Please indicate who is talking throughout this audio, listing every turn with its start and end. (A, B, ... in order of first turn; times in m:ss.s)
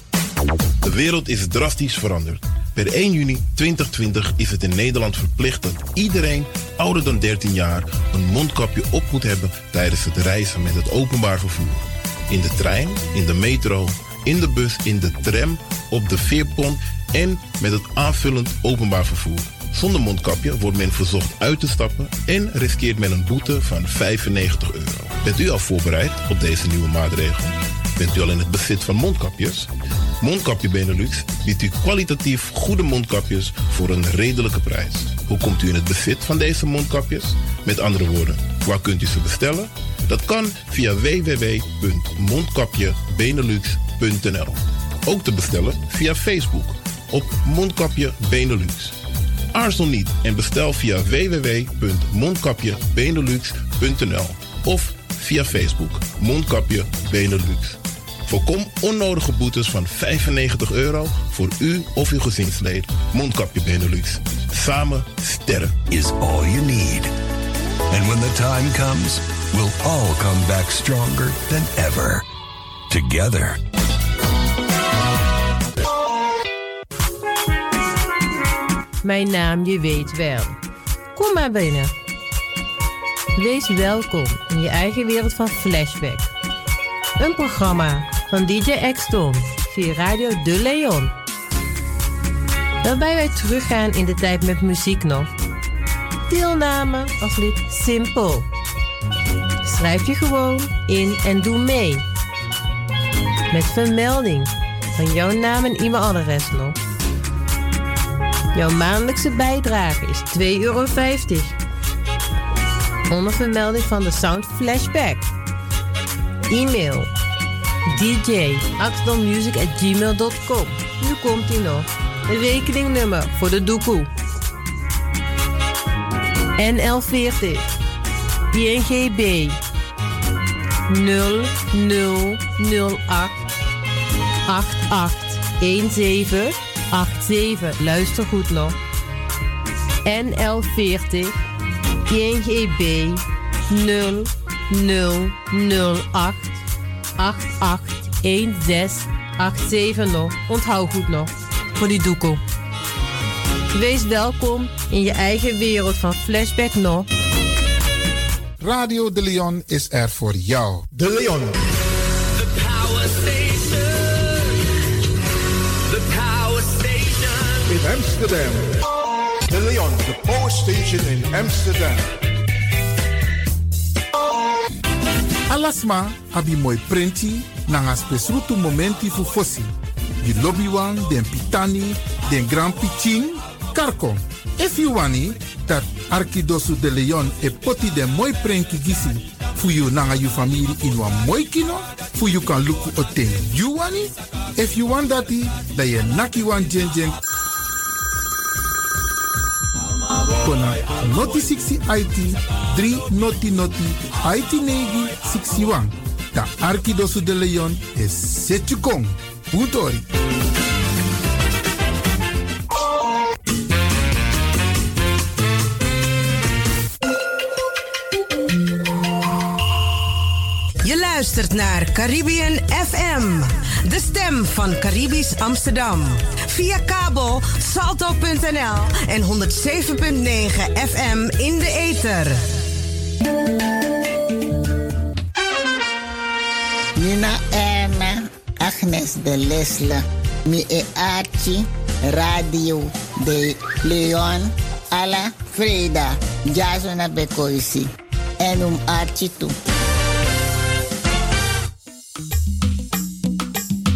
0:00.8-0:29.7 A
0:30.2-0:49.0 A
0:49.5-1:05.8 A
1:05.8-1:07.1 B
1:07.9-1:12.2 B
1:12.9-1:13.6 B
1:19.0-1:20.6 C
1:21.1-1:21.9 C
1:23.4-1:26.3 C
1:27.2-1:31.1 C
1:32.8-1:35.3 C
1:36.3-1:38.5 C
1:39.6-1:42.0 C
1:43.5-1:46.8 C
1:48.5-1:51.6 C
1:53.1-1:55.3 C
1:56.5-1:57.1 C
1:57.9-2:04.1 C
2:06.6-2:07.6 C
2:08.5-2:09.6 C
2:10.9-2:13.4 C
2:14.4-2:18.8 C
2:20.0-2:21.4 C
2:22.1-2:26.6 C
2:27.2-2:32.4 C
2:33.7-2:37.1 C
2:38.6-2:40.9 D
2:41.0-2:41.5 E
2:42.3-2:44.6 F
2:45.9-2:47.7 F
2:47.7-2:48.6 E
2:49.7-2:50.4 E
2:51.5-2:52.0 E
2:55.5-3:17.2 D
3:20.4-3:30.0 D
3:40.8-3:52.4 G
3:57.0-4:09.6 H